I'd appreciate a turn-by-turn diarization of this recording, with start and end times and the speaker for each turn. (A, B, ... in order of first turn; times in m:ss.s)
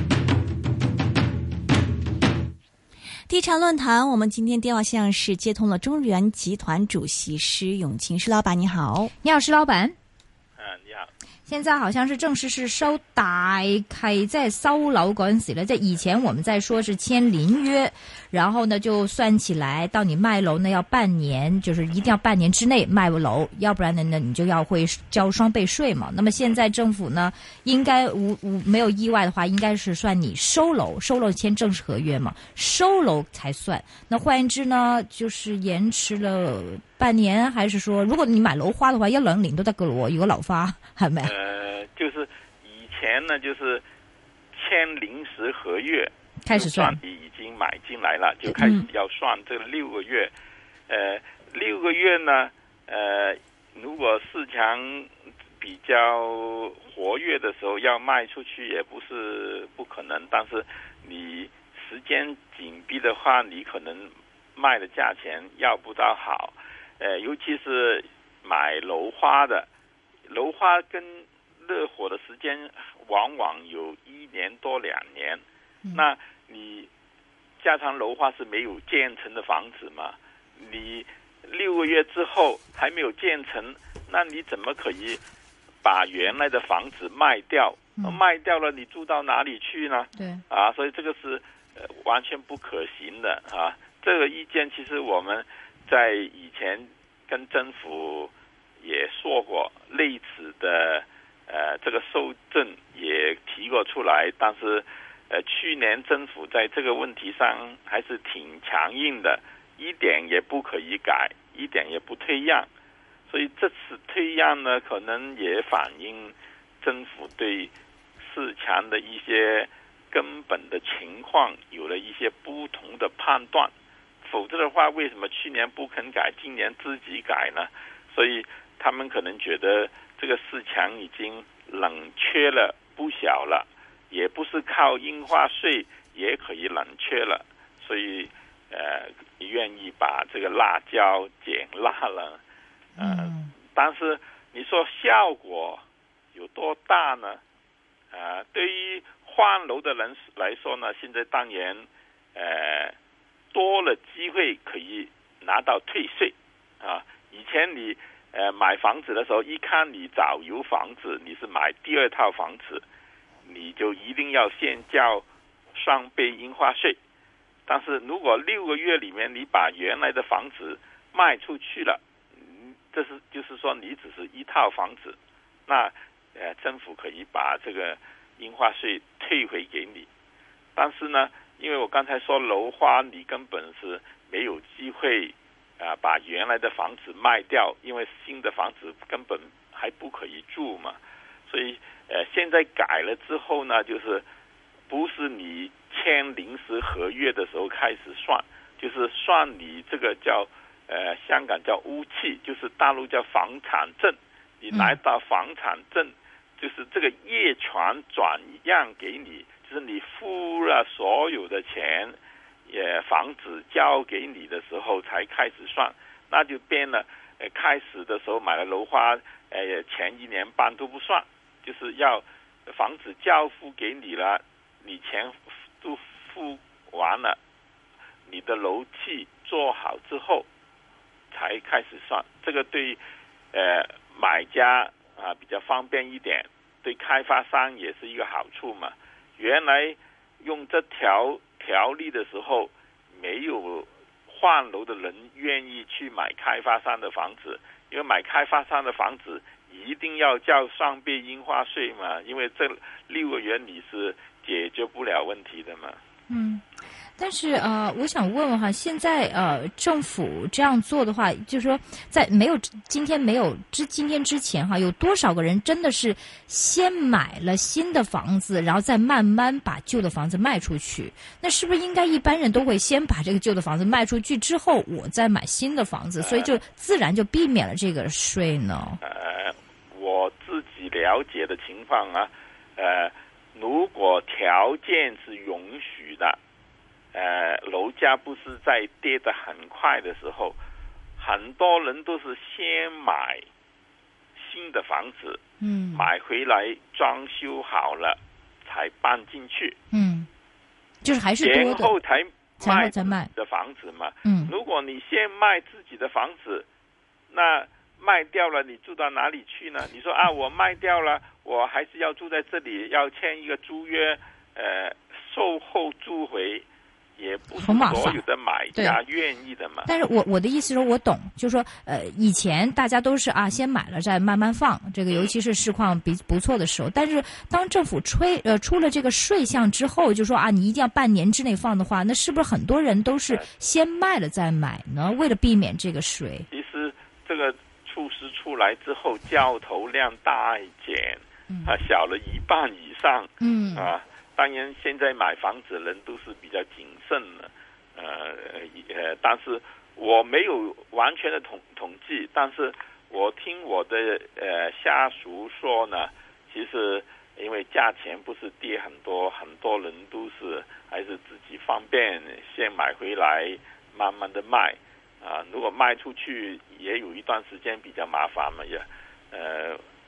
0:03.3-0:09.1 A
0:09.2-0:10.0 B
0:10.6-0:11.1 C
0:11.5-0:41.3 B
0:41.2-0:43.8 C
0:44.5-0:50.3 C
0:46.4-0:47.0 B
0:48.6-0:48.9 A
0:50.9-1:09.7 C
1:10.3-1:16.9 C
1:17.6-1:25.2 C
1:25.8-1:52.7 C
1:30.2-1:30.4 B
1:53.3-2:03.7 C
2:04.2-2:22.4 C
2:23.0-2:23.5 B
2:23.0-2:25.8 C
2:26.3-2:27.4 C
2:28.1-2:33.0 C
2:33.5-2:42.8 C
2:43.4-2:47.0 C
2:47.7-3:00.1 C
3:00.8-3:14.2 C
3:14.9-3:47.4 C
3:24.7-3:25.0 B
3:48.3-3:50.5 C
3:51.3-3:53.0 C
3:53.5-4:16.0 C
4:16.3-4:16.6 B
4:17.2-4:39.0 B
4:36.2-4:36.5 C
4:39.0-4:46.4 C
4:47.1-4:50.6 C
4:51.2-4:53.5 C
4:54.4-4:55.4 C
4:55.6-4:56.1 B
4:55.9-4:59.8 C
4:59.9-5:00.3 B
5:01.0-5:02.0 B
5:01.4-5:06.7 C
5:02.6-5:03.3 B
5:04.2-5:04.5 B
5:07.3-5:16.7 C
5:17.2-5:19.9 C
5:17.6-5:18.2 B
5:19.8-5:36.5 B
5:36.5-6:09.8 C
5:41.5-5:41.8 B
5:43.4-5:43.9 B